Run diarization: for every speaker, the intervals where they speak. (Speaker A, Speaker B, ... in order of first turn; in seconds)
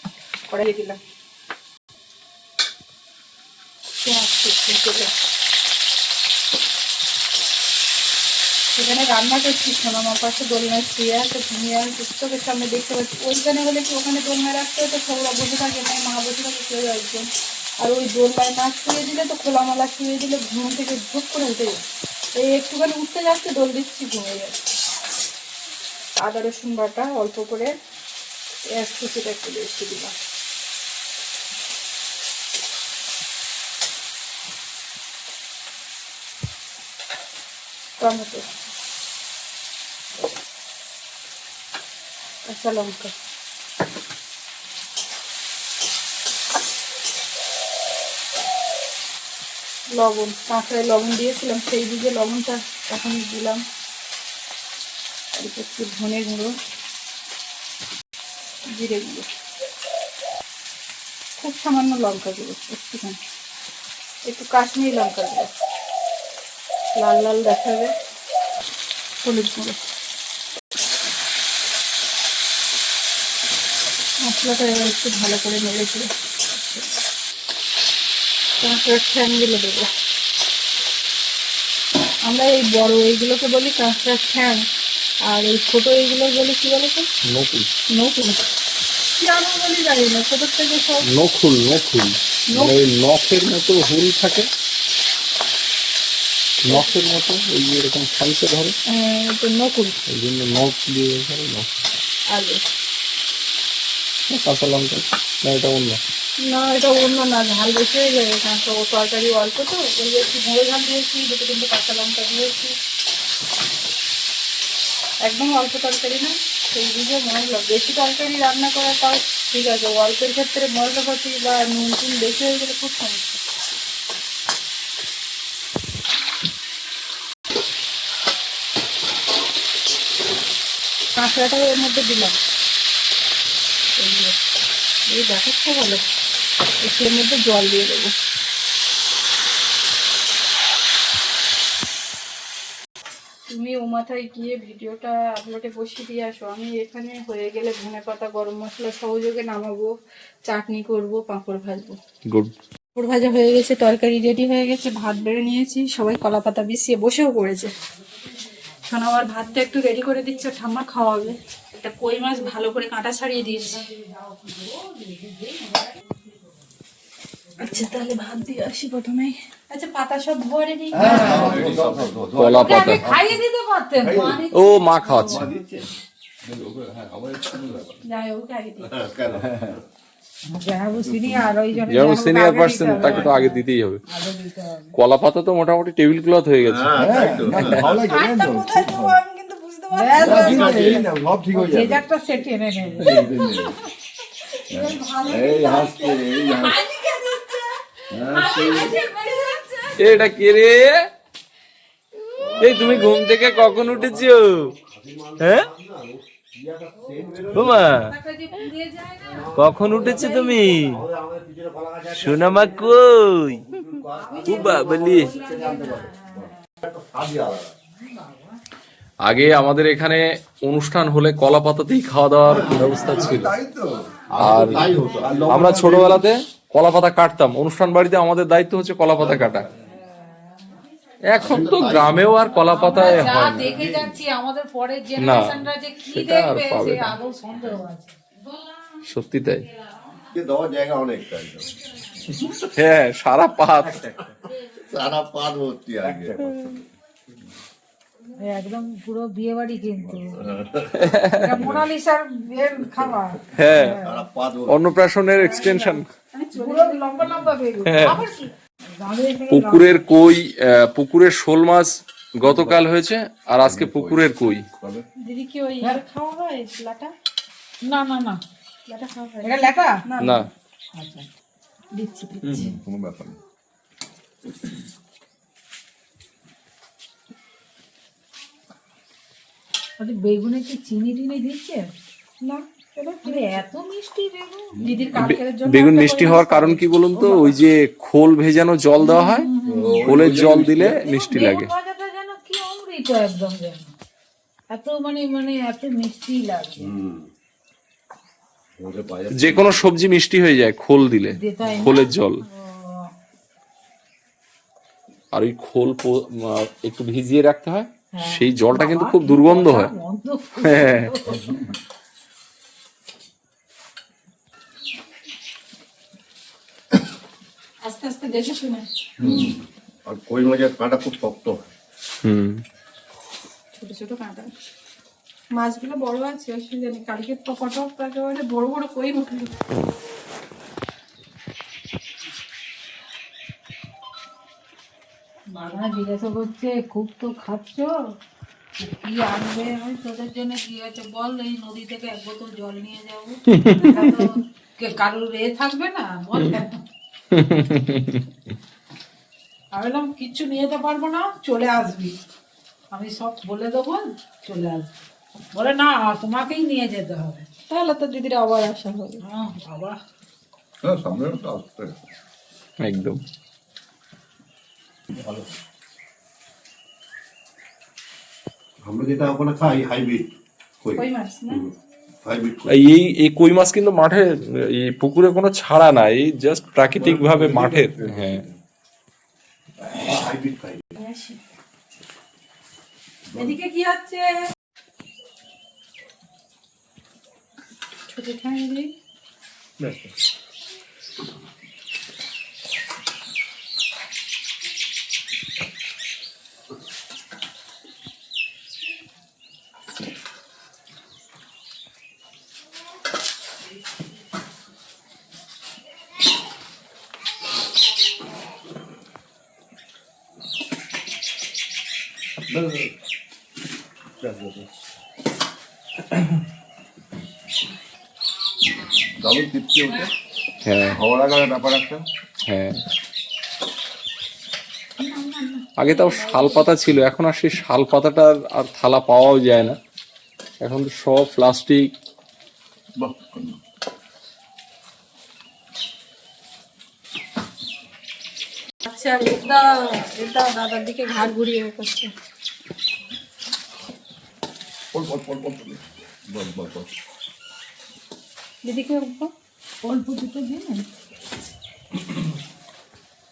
Speaker A: 0.5-1.0, 4.0-5.1, 8.7-17.3, 17.8-21.8, 22.4-24.7, 26.2-27.7, 28.8-30.1, 38.0-38.5, 42.5-43.1, 49.9-53.6, 55.3-56.5, 58.7-59.3, 61.4-63.2, 64.3-65.6, 67.0-67.9, 69.2-69.8, 74.2-76.1, 78.6-79.9, 82.2-84.6, 85.3-87.1, 87.9-88.4, 89.2-91.1, 92.5-92.8, 96.7-96.9, 98.9-100.0, 102.3-102.6, 106.4-112.7, 115.2-123.4, 131.2-132.3, 134.0-134.3, 135.1-136.0, 136.8-138.1, 143.5-149.9, 150.4-152.0, 152.9-157.7, 158.9-163.8, 167.6-171.5, 178.1-178.9, 188.1-190.7, 195.7-196.0, 196.5-197.7, 198.3-200.0, 256.3-257.0, 265.2-267.1, 268.9-270.5, 282.4-283.6, 284.8-287.5, 317.8-318.9, 323.8-324.5, 325.6-329.5, 357.7-359.2, 370.9-371.6, 380.9-381.4, 383.4-384.3, 388.1-388.9, 438.8-442.1, 448.6-449.3
Speaker B: 87.2-87.7, 91.1-94.5, 96.6-98.8, 100.1-101.7, 104.3-106.0, 172.4-173.0, 174.5-175.5, 181.9-184.0, 184.9-186.9, 187.5-187.9, 200.0-201.0, 202.6-204.7, 205.4-205.7, 207.5-208.1, 209.6-211.0, 212.2-213.6, 214.4-215.3, 219.2-223.5, 224.4-224.9, 225.5-229.7, 231.3-233.7, 235.2-237.1, 239.0-239.7, 242.7-244.1, 251.0-251.7, 253.5-254.0, 254.7-256.1, 257.8-258.2, 259.5-264.6, 270.2-270.5, 272.4-272.7, 285.2-289.5, 290.0-291.7, 299.3-302.4, 305.3-309.9, 310.6-311.1, 322.2-322.6, 343.5-344.3, 347.3-348.2, 362.8-363.2, 372.7-378.4, 420.6-421.0, 422.5-422.8, 425.8-429.8, 430.6-431.9
Speaker C: 163.6-166.5, 171.1-171.4, 172.6-175.6, 180.5-184.9, 189.9-193.7, 194.7-196.5, 198.2-200.3, 207.0-210.9, 214.2-216.5, 217.9-218.6, 232.5-238.2, 248.4-250.4, 251.4-254.2, 255.4-256.0, 256.5-260.0, 267.9-268.4, 269.4-270.0, 270.9-271.3, 271.9-272.8, 280.0-281.9, 283.2-285.0, 289.0-290.0, 290.9-293.9, 294.7-296.9, 301.3-303.1, 308.1-311.6, 335.5-337.9, 338.8-346.8, 349.7-352.2, 352.9-354.9, 355.5-357.4, 359.2-360.0, 425.0-426.6, 449.8-450.9
Speaker D: 170.9-173.4, 174.0-174.4, 175.2-175.8, 176.4-178.0, 179.3-179.8, 180.9-181.8, 182.9-183.2, 186.9-189.2, 190.2-192.1, 193.0-193.8, 194.7-196.8, 198.1-199.0, 215.7-216.4, 222.5-226.2, 229.2-229.7, 233.0-234.2, 246.0-246.8, 250.1-250.9, 262.4-262.8, 263.6-265.1, 272.6-273.4, 289.7-290.9, 311.3-311.6, 319.2-319.5, 360.8-361.9, 365.1-365.4, 377.0-378.5, 412.5-412.9, 414.2-414.7, 419.2-420.1, 420.8-422.0, 433.0-433.6, 444.9-446.9
Speaker E: 171.0-172.7, 178.9-179.8, 186.6-188.0, 190.2-191.0, 202.3-203.2, 203.7-208.0, 209.2-216.3, 216.8-217.7, 222.5-223.3, 224.3-226.2, 231.3-232.2, 240.3-241.7, 244.8-246.6, 250.4-250.9, 254.0-254.9, 289.7-290.8, 296.8-297.3, 298.8-299.8, 319.2-321.6, 368.9-370.2, 370.8-371.7, 372.2-372.8, 379.9-380.8